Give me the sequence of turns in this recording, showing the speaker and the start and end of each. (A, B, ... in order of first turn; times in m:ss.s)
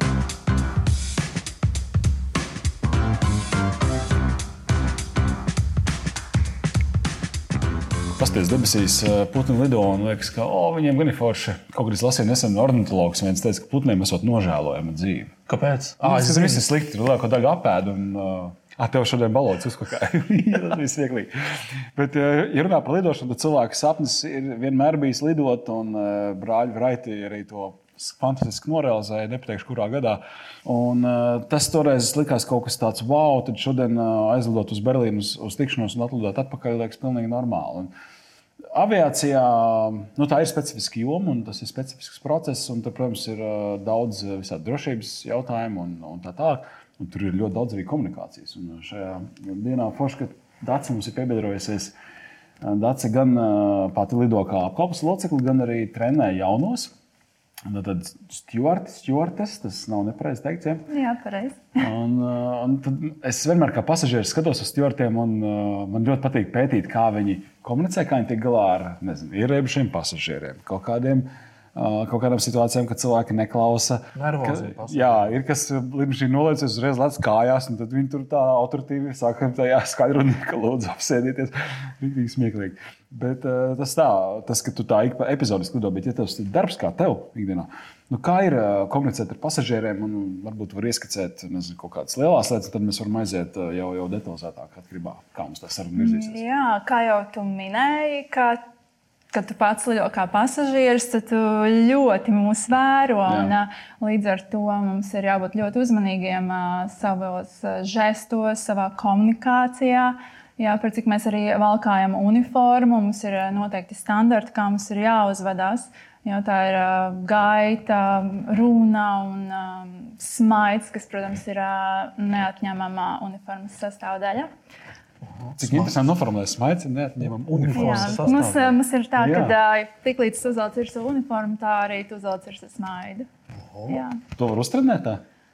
0:08.2-0:15.3 A
0:15.5-0:16.7 B
0:16.0-0:37.9 A
0:38.7-0:51.9 A
0:52.6-0:56.9 A
0:57.7-1:00.9 A
1:00.9-1:01.8 C
1:01.8-1:36.4 A
1:14.1-1:15.4 B
1:36.0-1:38.6 C
1:39.3-2:04.5 C
1:43.3-1:43.5 A
2:05.2-2:06.0 B
2:05.6-2:08.4 A
2:07.2-2:08.8 B
2:07.7-2:13.3 C
2:09.2-2:09.6 A
2:13.6-2:14.0 B
2:13.9-2:14.2 C
2:14.4-2:15.2 A